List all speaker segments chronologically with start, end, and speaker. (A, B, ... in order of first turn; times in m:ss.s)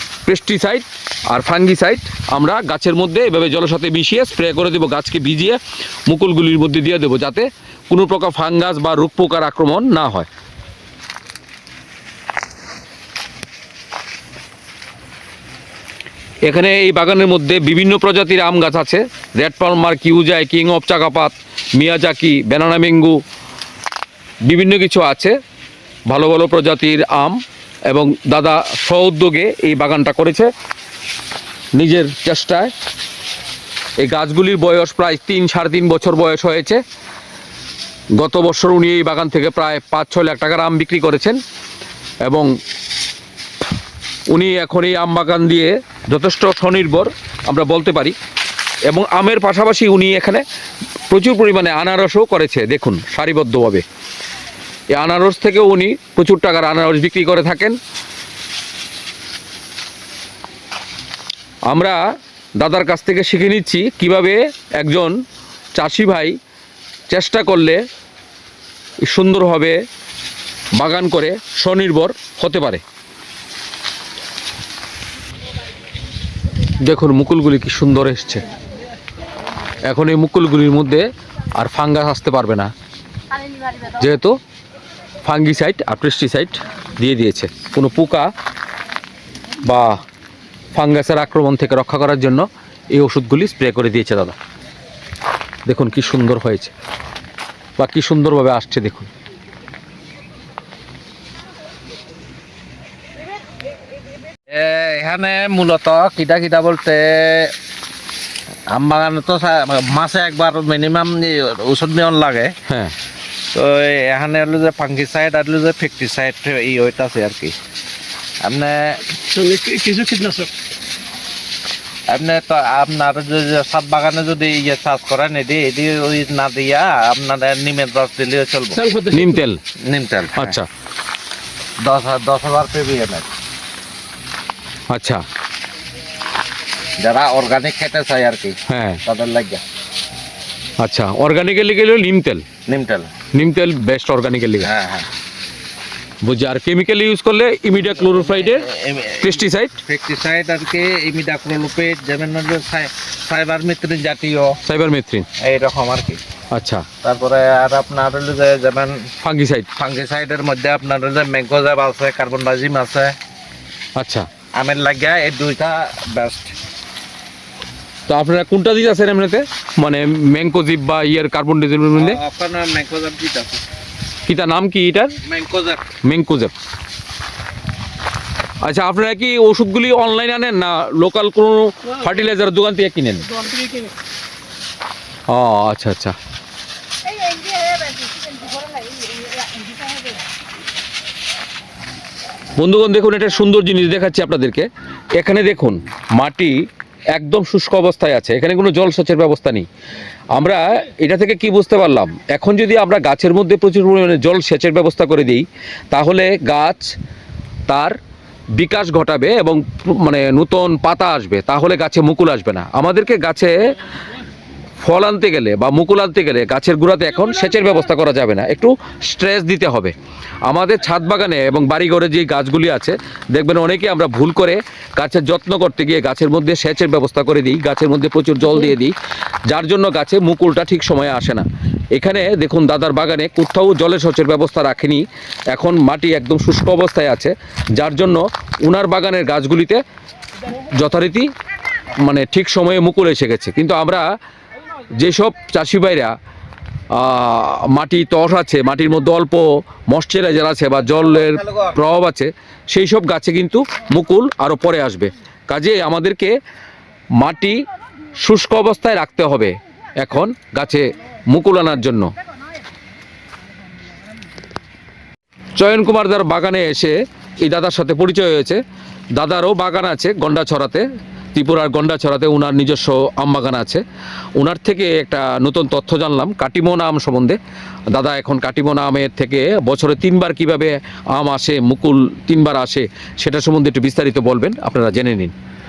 0:00.2-0:10.3 A
0:16.5-0:23.2 A
0:24.5-0:25.4 A
0:26.1-0:30.5 A
0:31.8-0:32.7 A
0:34.0-0:36.8 A
0:38.2-0:41.4 A
0:44.3-0:48.1 A
0:48.9-0:50.4 A
0:51.1-0:53.8 A
0:54.9-0:57.8 A
1:01.7-1:02.0 A
1:02.6-1:05.2 A
1:05.8-1:06.4 A
1:07.1-1:07.8 A
1:09.1-1:09.8 A
1:10.8-1:12.8 A
1:16.8-1:18.4 A
1:19.8-1:22.7 A
1:23.8-1:24.4 A
1:25.2-1:28.3 A
1:29.6-1:30.0 A
1:30.7-1:34.3 A
1:35.7-1:36.7 A
1:37.8-1:39.1 A
1:44.5-1:47.5 B
1:48.7-1:52.5 B
1:52.7-1:52.9 A
1:53.5-1:57.6 B
1:58.4-1:59.0 B
1:59.2-2:00.5 C
2:02.1-2:08.8 B
2:08.7-2:09.4 C
2:09.1-2:09.6 A
2:09.8-2:10.6 B
2:10.3-2:10.7 A
2:11.8-2:13.3 B
2:14.9-2:15.2 A
2:17.0-2:19.6 B
2:18.7-2:19.0 A
2:20.8-2:22.4 A
2:22.7-2:23.1 B
2:23.3-2:24.7 A
2:24.6-2:25.1 B
2:26.2-2:28.6 A
2:27.8-2:34.6 B
2:29.2-2:29.8 A
2:34.6-2:35.2 A
2:35.4-2:36.2 B
2:36.5-2:36.8 A
2:37.0-2:39.1 B
2:39.2-2:39.7 A
2:39.8-2:43.1 B
2:44.0-2:44.3 A
2:44.6-2:46.6 B
2:48.1-2:52.2 A
2:52.0-2:53.6 B
2:54.3-2:55.1 A
2:55.2-2:55.9 B
2:56.0-2:56.5 A
2:58.6-3:03.3 A
3:01.9-3:02.1 C
3:03.3-3:03.9 C
3:05.3-3:06.1 A
3:07.1-3:10.1 D
3:12.6-3:16.6 A
3:17.1-3:19.7 A
3:20.3-3:26.9 A
3:27.7-3:28.0 A
3:28.6-3:33.5 A
3:34.8-3:39.9 A
3:40.4-3:48.9 A
3:49.5-3:59.8 A
4:00.7-4:01.3 A
4:02.0-4:04.1 A
4:04.9-4:06.1 A
4:06.9-4:16.3 A
4:17.2-4:17.6 A
4:18.2-4:22.1 A
4:25.6-4:28.6 A
4:29.2-4:33.8 A
4:34.4-4:37.4 A
4:37.9-4:45.3 A